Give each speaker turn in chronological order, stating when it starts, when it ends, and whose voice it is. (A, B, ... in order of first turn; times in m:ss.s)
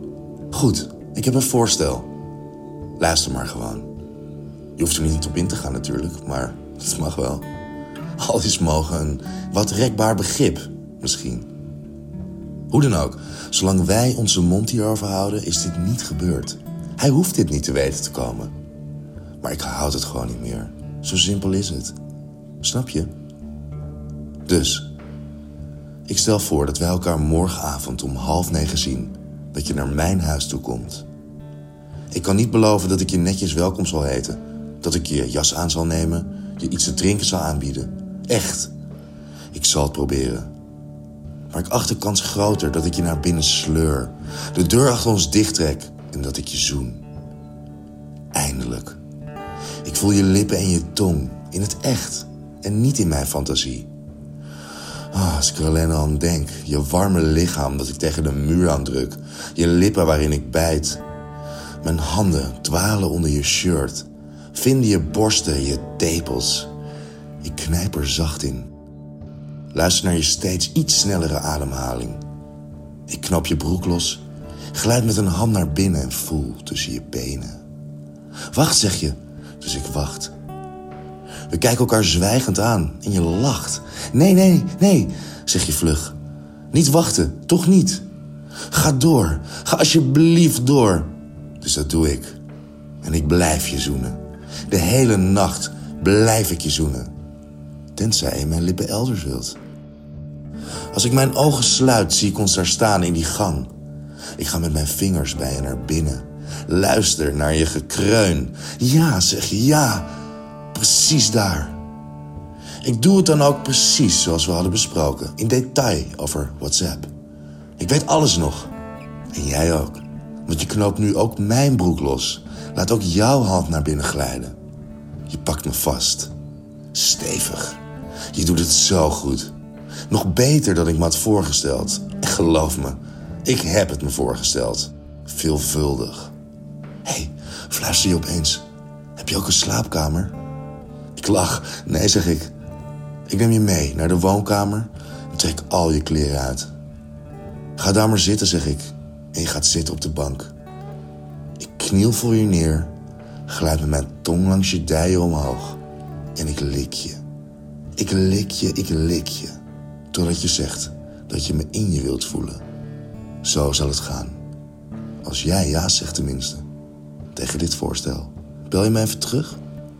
0:00.5-0:02.1 A
0:03.0-0:03.9 A
0:04.8-0:07.5 A
0:08.2-0:11.5 A
0:12.7-0:18.5 A
0:19.4-0:22.0 A
0:22.6-0:23.1 A
0:24.4-0:24.9 A
0:26.1-0:31.0 A
0:32.1-0:38.7 A
0:39.5-0:40.5 A
0:41.5-0:47.0 A
0:48.3-0:49.0 A
0:49.8-0:53.9 A
0:55.1-1:01.0 A
1:01.8-1:06.7 A
1:07.4-1:08.7 A
1:09.7-1:12.2 A
1:13.1-1:17.6 A
1:18.5-1:20.3 A
1:21.5-1:26.2 A
1:26.7-1:28.0 A
1:28.7-1:32.4 A
1:33.0-1:37.1 A
1:37.9-1:39.6 A
1:40.9-1:43.7 A
1:44.4-1:50.1 A
1:50.7-1:51.8 A
1:52.8-1:57.1 A
1:57.8-1:58.7 A
1:59.3-2:04.6 A
2:05.3-2:06.3 A
2:06.9-2:09.5 A
2:10.1-2:16.3 A
2:17.0-2:18.6 A
2:19.2-2:20.4 A
2:21.1-2:22.5 A
2:23.3-2:26.7 A
2:27.8-2:30.5 A
2:31.6-2:32.9 A
2:33.5-2:35.8 A
2:36.3-2:37.2 A
2:38.0-2:39.6 A
2:40.1-2:42.6 A
2:43.4-2:44.4 A
2:45.2-2:46.6 A
2:47.3-2:49.6 A